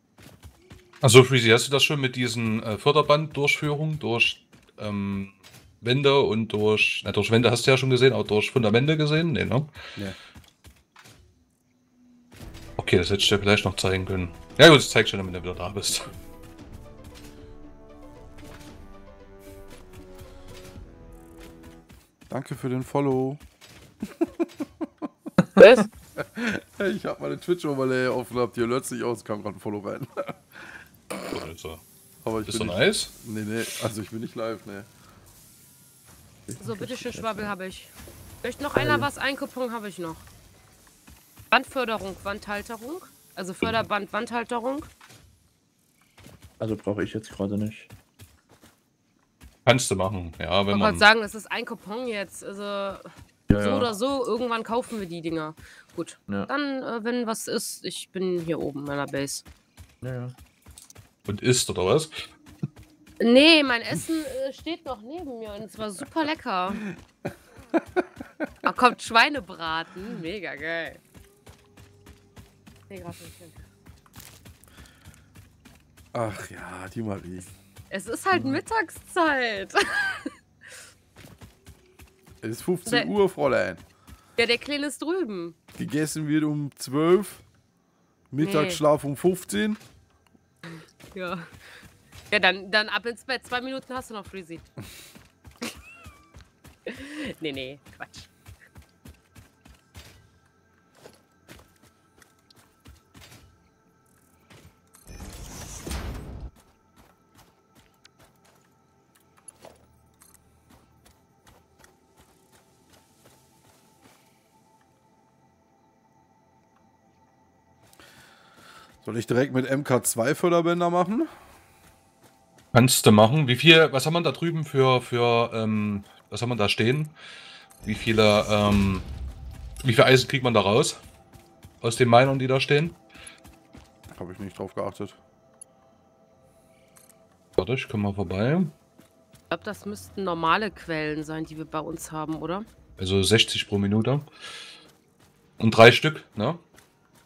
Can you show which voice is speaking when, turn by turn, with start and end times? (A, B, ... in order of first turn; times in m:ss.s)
0:01.0-0:09.7 A
0:12.8-0:16.1 A
0:22.3-0:23.4 B
0:24.1-0:24.8 B
0:25.6-0:25.8 C
0:26.2-0:30.4 B
0:31.3-0:31.8 A
0:32.2-0:34.9 B
0:32.4-0:33.1 A
0:36.5-0:37.5 D
0:36.6-0:37.9 C
0:38.4-0:40.2 C
0:38.8-0:39.1 D
0:41.5-0:44.9 C
0:46.6-0:47.9 D
0:49.6-0:51.0 A
0:50.7-0:59.4 C
0:53.5-0:53.9 D
1:00.0-1:00.3 D
1:01.2-1:02.1 A
1:03.2-1:06.8 C
1:08.6-1:11.0 C
1:12.9-1:13.6 C
1:16.1-1:17.5 B
1:17.9-1:20.3 C
1:22.4-1:23.8 B
1:22.8-1:23.1 C
1:24.4-1:25.6 C
1:25.8-1:27.4 B
1:28.3-1:29.8 B
1:28.4-1:28.8 C
1:30.6-1:31.6 C
1:32.3-1:34.6 C
1:36.8-1:38.3 C
1:59.0-2:01.3 B
2:02.7-2:07.1 A
2:07.8-2:09.1 A
2:09.8-2:11.0 A
2:11.8-2:13.0 A
2:14.1-2:15.2 B
2:17.6-2:18.7 A
2:19.5-2:22.6 C
2:23.0-2:24.3 A
2:25.6-2:26.6 A